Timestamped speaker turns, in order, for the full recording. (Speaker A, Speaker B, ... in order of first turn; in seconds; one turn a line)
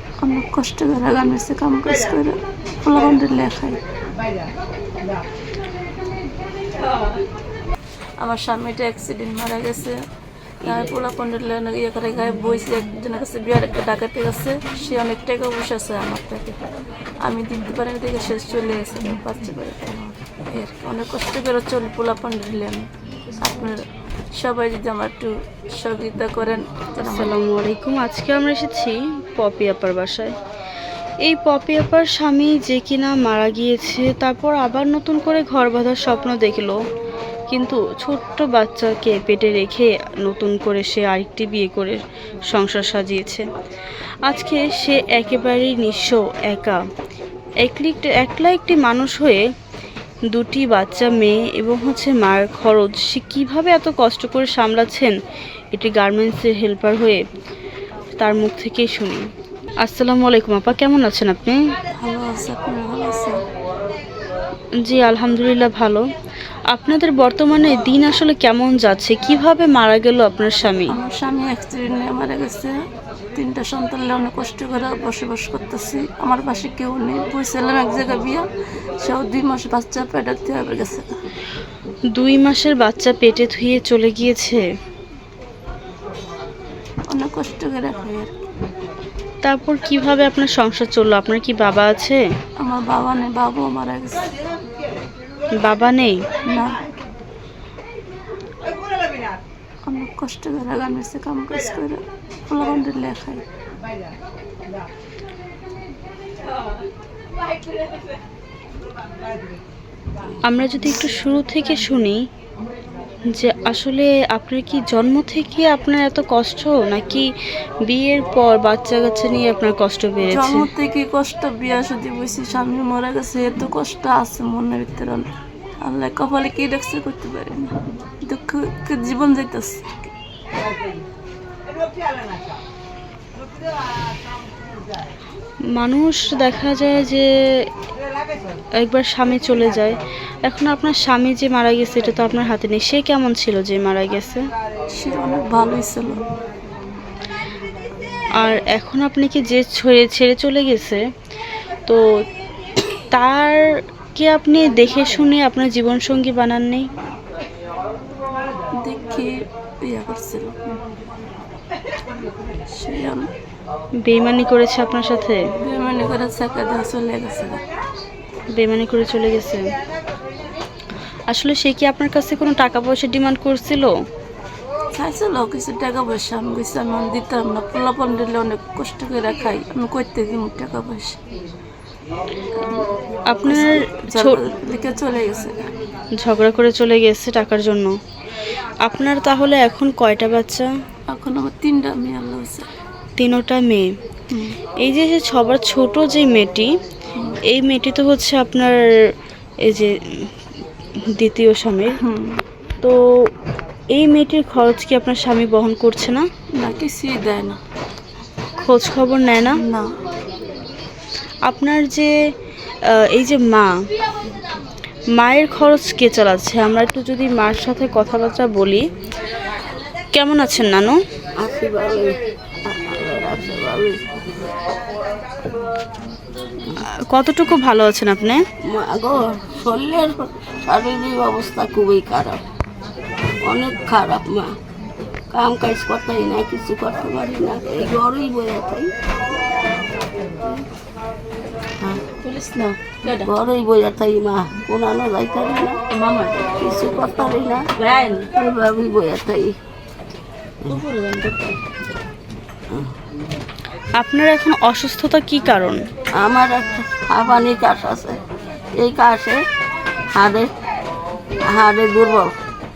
Speaker A: 0.2-3.8
Speaker A: 8.2-10.0
Speaker A: 10.6-16.6
Speaker A: 17.2-23.8
Speaker A: 24.4-27.4
Speaker B: 27.0-30.4
Speaker B: 31.2-36.8
Speaker B: 37.5-42.0
Speaker B: 42.5-43.5
Speaker B: 44.2-46.8
Speaker B: 47.6-49.4
Speaker B: 50.3-55.1
Speaker B: 55.7-57.2
Speaker B: 58.2-59.2
Speaker B: 59.8-61.6
Speaker A: 62.0-63.4
Speaker B: 64.8-66.1
Speaker B: 66.7-71.0
Speaker A: 70.9-72.8
Speaker A: 73.4-78.5
Speaker A: 79.0-81.1
Speaker B: 82.2-84.7
Speaker A: 87.1-88.3
Speaker B: 89.4-92.2
Speaker A: 92.6-94.3
Speaker B: 95.6-96.2
Speaker A: 96.5-96.8
Speaker A: 99.9-103.4
Speaker B: 110.5-112.2
Speaker B: 113.3-117.3
Speaker B: 117.9-120.7
Speaker A: 120.3-125.3
Speaker A: 125.8-130.1
Speaker B: 135.8-137.3
Speaker B: 138.8-144.4
Speaker A: 144.9-146.2
Speaker B: 148.4-151.0
Speaker B: 153.1-153.6
Speaker B: 154.2-156.9
Speaker A: 158.8-159.3
Speaker A: 159.8-160.6
Speaker A: 162.7-163.3
Speaker B: 164.0-165.4
Speaker A: 165.6-167.6
Speaker B: 168.6-169.7
Speaker B: 171.3-173.9
Speaker A: 174.9-181.2
Speaker A: 182.6-182.9
Speaker B: 183.3-184.4
Speaker A: 183.4-185.7
Speaker B: 186.2-187.9
Speaker B: 188.8-190.7
Speaker A: 191.1-192.7
Speaker B: 193.2-193.9
Speaker A: 194.3-194.6
Speaker B: 194.8-196.7
Speaker A: 197.1-197.4
Speaker B: 197.5-198.8
Speaker B: 199.6-200.3
Speaker B: 201.2-202.0
Speaker A: 202.0-202.4
Speaker B: 202.8-203.3
Speaker B: 203.9-206.3
Speaker A: 206.6-207.6
Speaker B: 208.6-209.6
Speaker A: 209.6-209.9
Speaker B: 211.5-212.1
Speaker B: 213.1-213.7
Speaker B: 215.2-218.8
Speaker B: 220.1-221.0
Speaker C: 221.4-224.0
Speaker B: 227.1-228.4
Speaker C: 228.6-232.4
Speaker C: 233.4-234.6
Speaker C: 235.3-238.9
Speaker A: 242.2-243.3
Speaker C: 243.2-245.8
Speaker A: 245.9-246.5
Speaker C: 246.6-249.6
Speaker A: 247.9-248.3
Speaker A: 250.7-251.7
Speaker B: 254.0-255.8
Speaker C: 256.1-258.2
Speaker C: 258.8-259.4
Speaker C: 260.1-260.5
Speaker C: 261.5-262.3